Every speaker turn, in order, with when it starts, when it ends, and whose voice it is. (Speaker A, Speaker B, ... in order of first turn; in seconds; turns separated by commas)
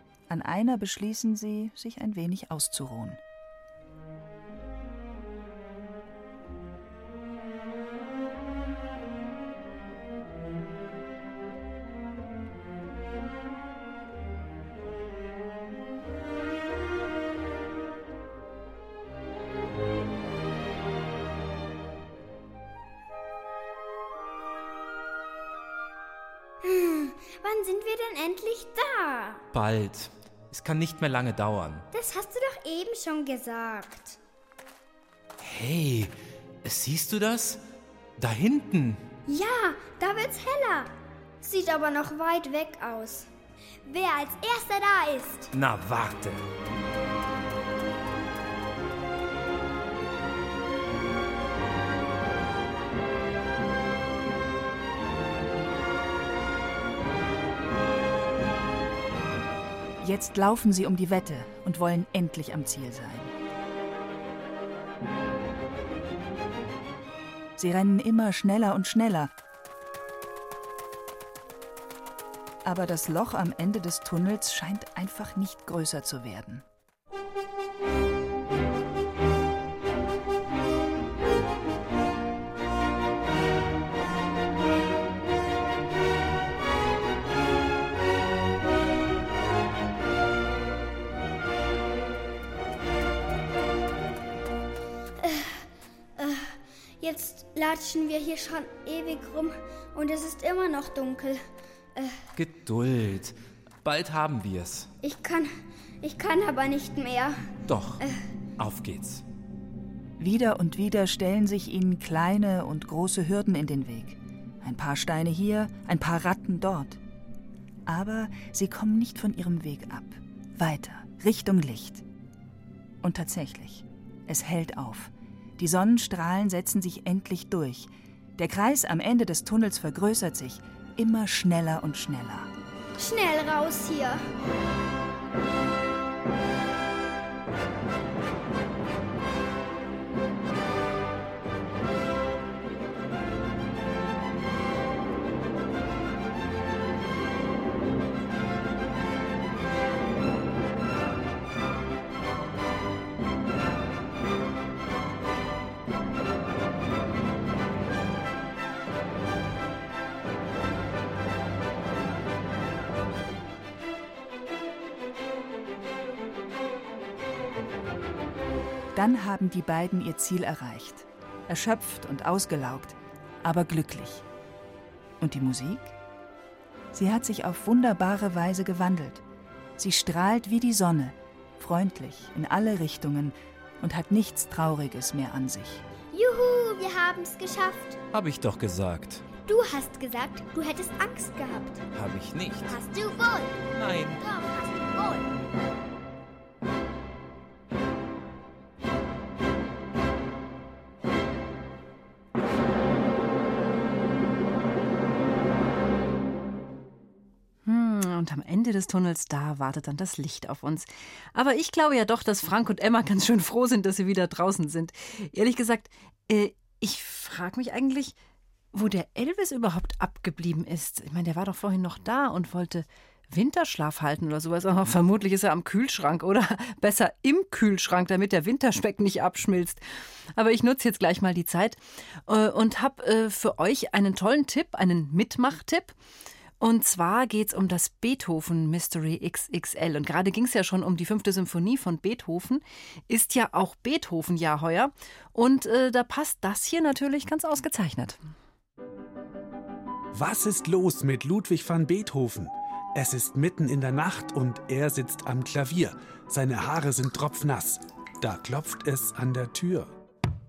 Speaker A: 0.3-3.2, Speaker B: 26.6-29.4, Speaker C: 29.5-31.9, Speaker B: 31.9-34.1, Speaker C: 35.4-36.1, Speaker C: 36.6-37.6, Speaker C: 38.2-39.0, Speaker B: 39.3-40.9, Speaker B: 41.4-43.2, Speaker B: 43.9-45.5, Speaker C: 45.5-46.4, Speaker A: 60.0-63.3, Speaker A: 67.6-69.3, Speaker A: 72.6-76.6, Speaker B: 97.0-101.4, Speaker C: 102.3-104.9, Speaker B: 105.0-105.5, Speaker B: 106.0-107.3, Speaker C: 107.7-108.0, Speaker C: 108.6-109.2, Speaker A: 110.2-117.0, Speaker A: 117.8-122.0, Speaker A: 123.0-132.5, Speaker B: 133.0-134.2, Speaker A: 168.9-174.2, Speaker A: 175.2-175.9, Speaker A: 176.9-179.2, Speaker A: 179.8-185.8, Speaker B: 186.1-187.9, Speaker C: 188.1-189.2, Speaker B: 189.5-191.8, Speaker C: 191.9-192.8, Speaker B: 192.7-193.5, Speaker C: 193.7-194.2, Speaker B: 194.2-195.2, Speaker D: 207.6-218.2, Speaker D: 218.7-229.8, Speaker D: 230.3-235.9, Speaker D: 236.6-248.2, Speaker E: 250.1-259.9